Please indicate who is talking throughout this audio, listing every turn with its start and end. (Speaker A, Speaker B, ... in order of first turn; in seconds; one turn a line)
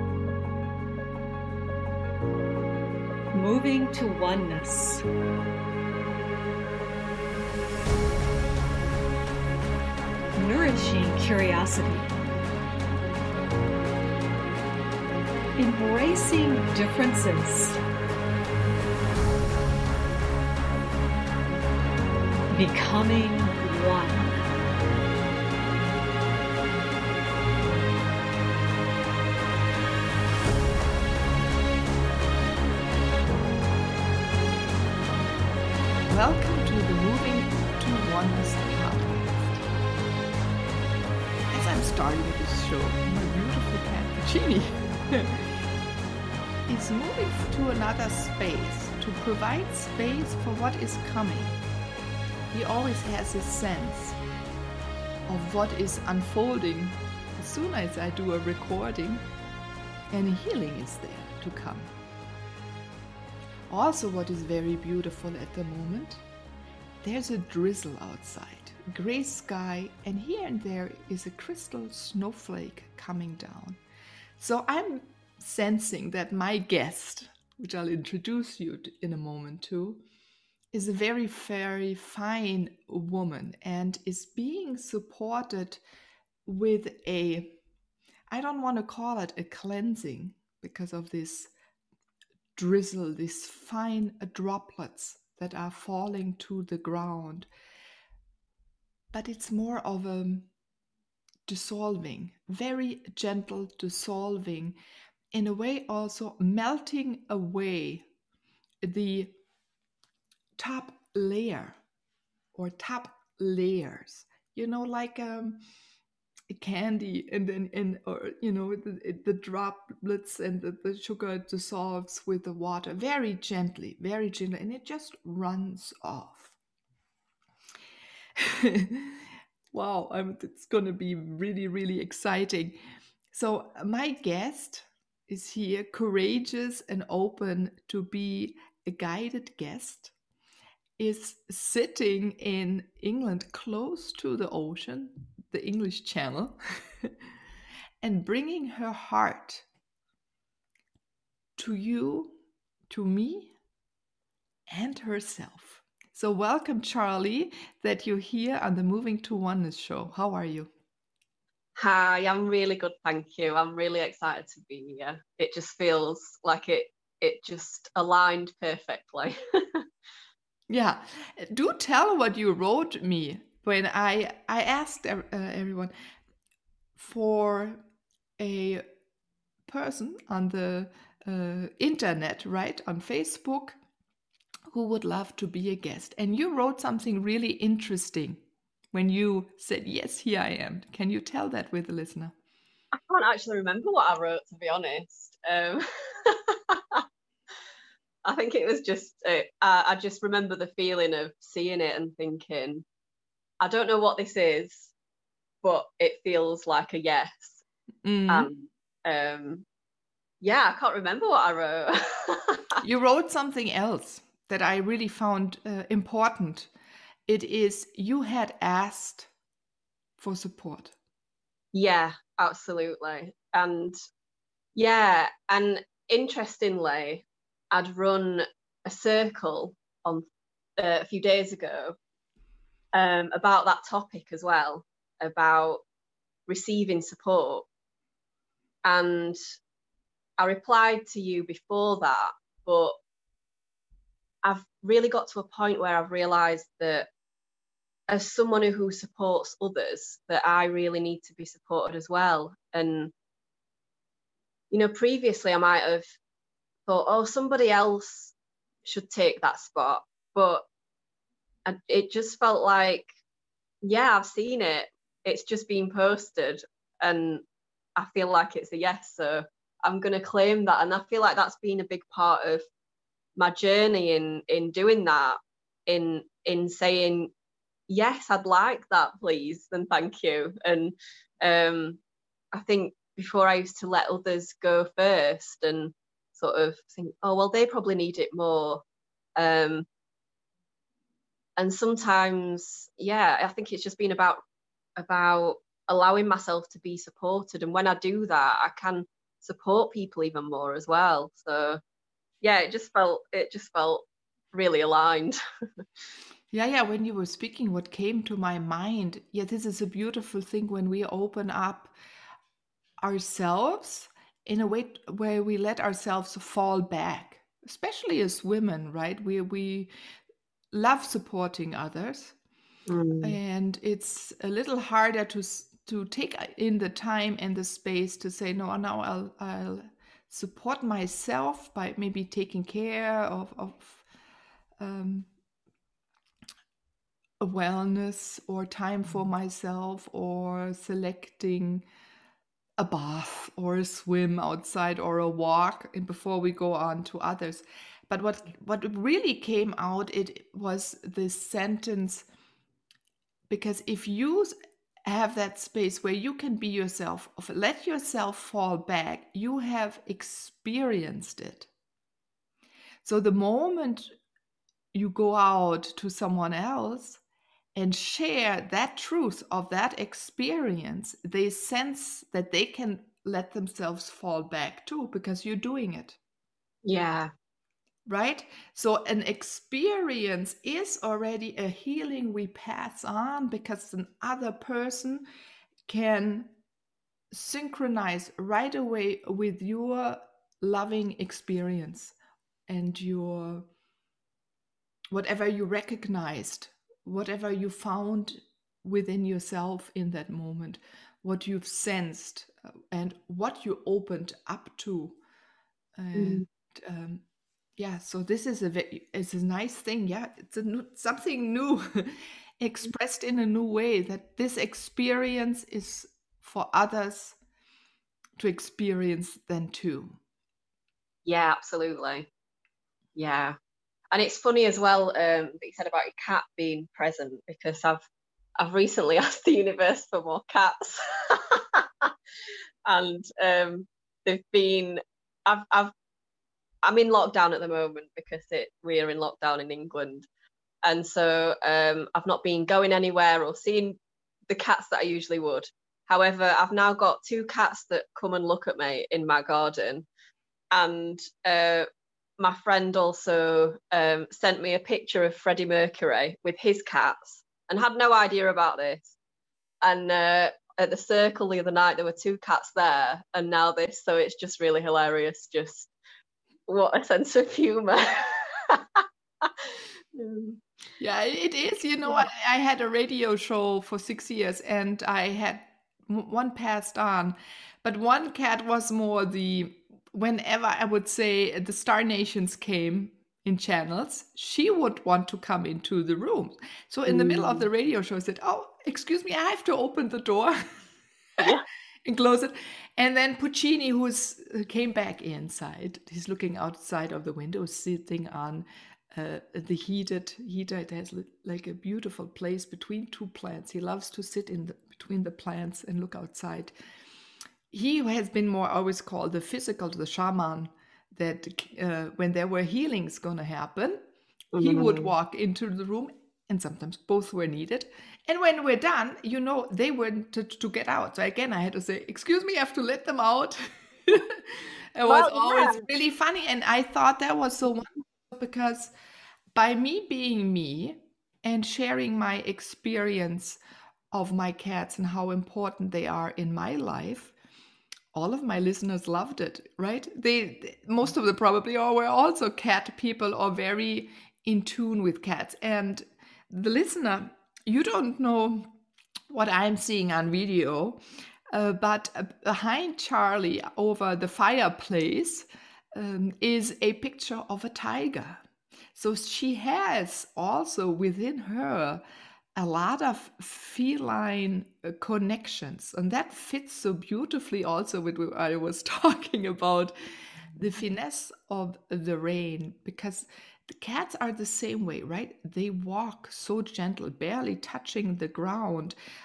Speaker A: 3.3-5.0
Speaker A: 10.3-12.1
Speaker A: 15.6-17.8
Speaker A: 22.5-24.4
Speaker B: 36.1-39.6
Speaker B: 41.5-45.5
Speaker B: 46.7-51.6
Speaker B: 52.5-54.2
Speaker B: 55.3-59.2
Speaker B: 60.1-61.9
Speaker B: 63.7-66.2
Speaker B: 67.0-73.8
Speaker B: 74.4-80.0
Speaker B: 80.7-85.8
Speaker B: 86.5-87.5
Speaker B: 88.3-91.5
Speaker B: 92.5-97.5
Speaker B: 99.1-100.5
Speaker B: 101.5-104.8
Speaker B: 105.3-108.0
Speaker B: 108.8-109.3
Speaker B: 110.6-111.8
Speaker B: 112.5-115.6
Speaker B: 116.5-126.5
Speaker B: 128.4-132.8
Speaker B: 133.3-140.1
Speaker B: 141.0-147.1
Speaker B: 148.0-149.6
Speaker B: 151.6-152.4
Speaker B: 152.9-153.5
Speaker B: 154.7-160.7
Speaker C: 161.8-169.8
Speaker B: 170.7-175.9
Speaker B: 176.9-177.8
Speaker B: 178.4-178.8
Speaker B: 179.7-183.8
Speaker B: 184.7-188.4
Speaker B: 188.9-192.3
Speaker C: 192.9-197.0
Speaker C: 198.2-202.8
Speaker C: 203.6-204.9
Speaker C: 205.6-207.6
Speaker B: 208.0-208.5
Speaker C: 208.3-209.6
Speaker C: 210.4-212.8
Speaker B: 212.8-216.7
Speaker B: 217.3-219.3
Speaker B: 220.2-220.9
Speaker C: 221.7-224.0
Speaker C: 224.8-230.2
Speaker C: 230.8-231.9
Speaker C: 232.9-235.8
Speaker C: 236.5-237.7
Speaker C: 238.8-239.4
Speaker C: 240.4-242.9
Speaker C: 244.4-247.1
Speaker C: 248.1-253.1
Speaker C: 254.7-256.1
Speaker C: 256.9-260.6
Speaker C: 261.6-263.1
Speaker C: 263.8-267.4
Speaker C: 268.0-272.6
Speaker C: 273.4-277.3
Speaker C: 277.9-282.0
Speaker C: 282.5-288.8
Speaker C: 289.4-289.9
Speaker C: 291.6-294.4
Speaker C: 295.0-301.8
Speaker C: 302.4-305.4
Speaker B: 306.5-311.9
Speaker B: 313.0-319.9
Speaker B: 320.7-322.4
Speaker C: 322.9-323.4
Speaker B: 323.2-334.1
Speaker B: 334.8-335.3
Speaker B: 337.4-341.8
Speaker B: 342.8-352.3
Speaker B: 353.5-354.5
Speaker B: 355.1-361.7
Speaker B: 363.0-364.1
Speaker B: 364.9-367.2
Speaker B: 367.8-376.2
Speaker C: 376.8-377.3
Speaker B: 378.1-385.2
Speaker B: 385.9-386.5
Speaker B: 387.3-392.1
Speaker B: 392.7-393.7
Speaker B: 395.1-405.2
Speaker B: 406.0-407.2
Speaker C: 406.1-406.4
Speaker B: 407.8-417.4
Speaker B: 418.4-420.2
Speaker C: 421.2-422.3
Speaker C: 423.1-423.6
Speaker C: 424.1-428.1
Speaker C: 428.6-432.1
Speaker C: 432.9-435.9
Speaker C: 436.8-440.2
Speaker C: 440.8-444.0
Speaker C: 444.5-450.1
Speaker C: 450.7-451.9
Speaker C: 452.4-459.1
Speaker C: 459.8-465.9
Speaker C: 466.7-470.6
Speaker B: 471.0-490.6
Speaker C: 487.1-487.7
Speaker B: 492.1-506.7
Speaker B: 507.7-514.0
Speaker C: 514.5-515.1
Speaker B: 514.6-528.9
Speaker C: 525.1-525.8
Speaker B: 529.5-533.6
Speaker B: 534.1-537.3
Speaker B: 538.1-548.7
Speaker B: 549.3-551.0
Speaker B: 551.5-558.4
Speaker B: 559.0-562.0
Speaker B: 562.6-569.9
Speaker B: 570.6-579.0